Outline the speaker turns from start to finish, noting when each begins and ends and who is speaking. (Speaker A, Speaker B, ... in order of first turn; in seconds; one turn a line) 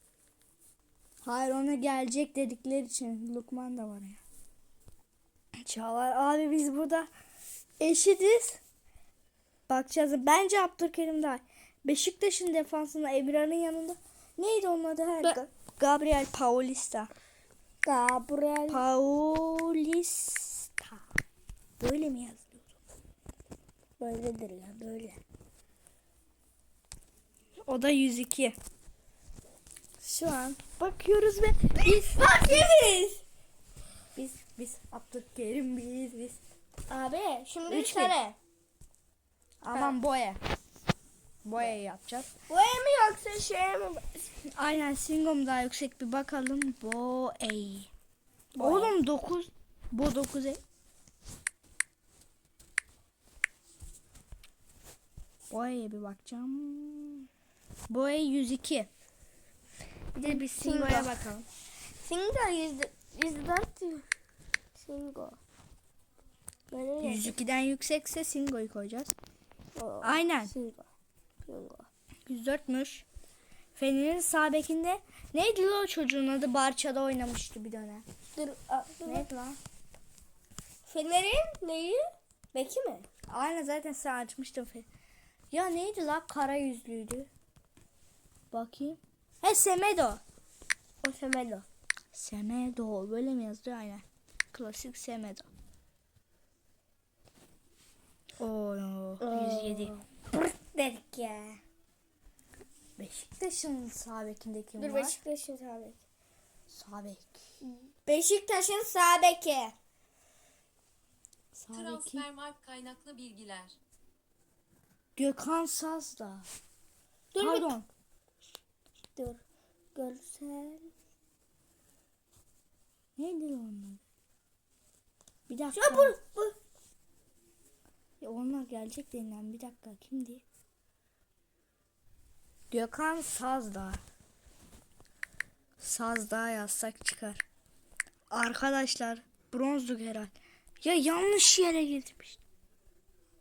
Speaker A: 1.2-4.2
Speaker A: 5.6-7.1
Speaker A: 7.8-8.6
Speaker A: 9.7-17.1
Speaker B: 17.8-18.8
Speaker A: 18.7-21.0
Speaker A: 21.8-22.8
Speaker B: 24.0-25.2
Speaker A: 27.7-28.6
Speaker A: 30.0-32.5
Speaker B: 31.8-33.2
Speaker A: 34.2-36.4
Speaker B: 36.9-38.4
Speaker A: 37.7-38.1
Speaker A: 39.6-40.4
Speaker A: 41.5-42.3
Speaker B: 42.5-44.2
Speaker A: 44.6-47.9
Speaker A: 48.6-50.6
Speaker B: 48.6-48.9
Speaker A: 55.5-57.3
Speaker A: 57.9-58.9
Speaker A: 60.1-61.5
Speaker B: 60.2-61.1
Speaker B: 62.0-64.0
Speaker B: 64.8-65.4
Speaker B: 66.7-67.3
Speaker A: 67.0-69.1
Speaker B: 69.8-70.9
Speaker A: 70.0-70.5
Speaker B: 71.5-71.9
Speaker A: 72.3-73.1
Speaker A: 73.8-78.0
Speaker B: 78.3-79.3
Speaker A: 79.0-79.6
Speaker B: 80.9-82.0
Speaker B: 82.5-83.1
Speaker A: 83.3-84.9
Speaker A: 85.5-87.3
Speaker A: 88.5-90.2
Speaker B: 91.0-91.7
Speaker A: 92.1-95.5
Speaker A: 98.4-100.0
Speaker B: 99.2-101.6
Speaker A: 103.0-105.2
Speaker B: 104.8-106.0
Speaker A: 106.7-107.4
Speaker B: 107.7-109.7
Speaker A: 111.5-112.3
Speaker C: 111.7-113.8
Speaker A: 115.2-116.5
Speaker B: 117.3-117.7
Speaker A: 117.4-117.9
Speaker B: 119.2-119.4
Speaker B: 120.0-120.9
Speaker A: 123.2-124.0
Speaker A: 125.5-126.2
Speaker B: 125.7-126.5
Speaker A: 128.2-130.4
Speaker A: 132.7-134.0
Speaker A: 135.8-137.4
Speaker A: 138.3-142.4